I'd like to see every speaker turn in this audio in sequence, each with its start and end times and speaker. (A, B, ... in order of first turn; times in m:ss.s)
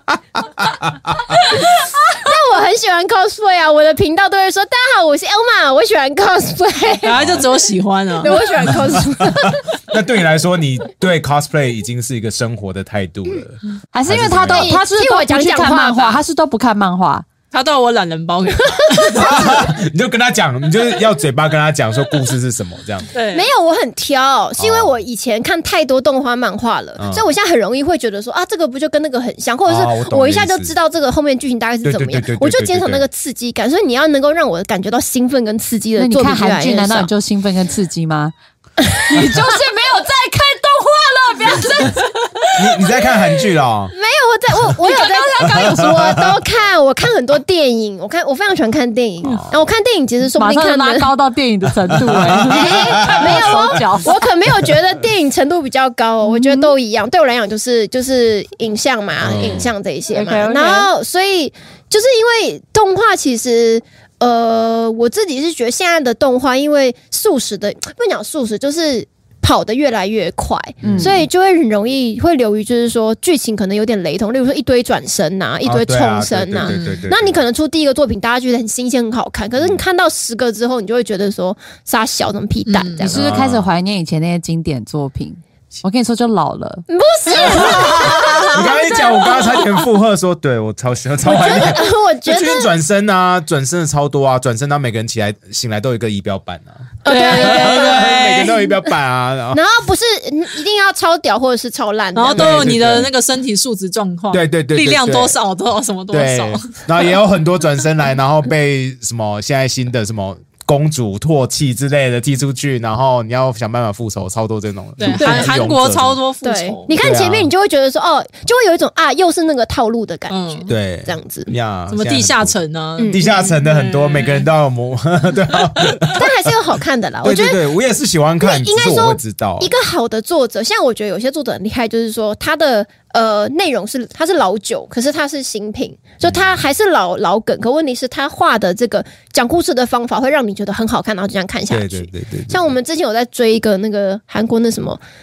0:00.6-0:01.4 A
0:01.4-0:07.2 B
0:07.0-0:08.8 C
0:07.2-0:07.4 A
0:08.2-0:09.6 B
0:08.7-0:14.8 A
0:13.9-0:17.2 D
0:14.4-0:16.2 B
0:17.5-0:19.3 C
0:18.7-0:19.6 B
0:19.1-0:23.1 A
0:23.1-0:23.5 C
0:23.3-0:37.1 B
0:24.6-0:25.0 A
0:27.0-0:27.2 A
0:29.7-0:30.7 A
0:31.8-0:33.0 A
0:36.0-0:38.3 D
0:38.9-0:39.4 B
0:39.0-0:42.2 D
0:42.6-0:43.9 A
0:43.9-0:51.1 B
0:44.8-0:46.0 D
0:45.5-0:46.3 A
0:50.3-0:54.2 D
0:51.9-0:53.8 A
0:52.4-1:23.3 B
0:56.2-0:56.7 D
0:59.2-0:59.7 A
1:00.1-1:00.9 D
1:10.8-1:11.3 A
1:10.8-1:11.2 D
1:15.6-1:17.4 A
1:16.6-1:17.0 C
1:19.6-1:19.8 A
1:22.7-1:23.1 C
1:23.1-1:23.7 A
1:23.1-1:26.8 D
1:26.9-1:29.8 B
1:27.4-1:39.6 A
1:31.2-1:32.7 B
1:37.0-1:38.2 B
1:37.0-1:38.6 C
1:39.5-1:42.9 B
1:42.1-1:47.1 C
1:42.3-1:43.1 A
1:44.3-1:45.4 A
1:46.1-1:56.2 A
1:55.0-1:56.9 C
1:55.1-1:55.6 B
1:56.4-2:01.5 B
1:57.0-1:57.5 A
2:00.3-2:00.7 C
2:00.7-2:02.6 A
2:01.9-2:04.5 C
2:03.0-2:03.3 B
2:03.1-2:06.5 A
2:06.1-2:07.6 B
2:07.2-2:09.7 A
2:08.4-2:25.0 B
2:16.2-2:16.6 A
2:21.7-2:22.7 A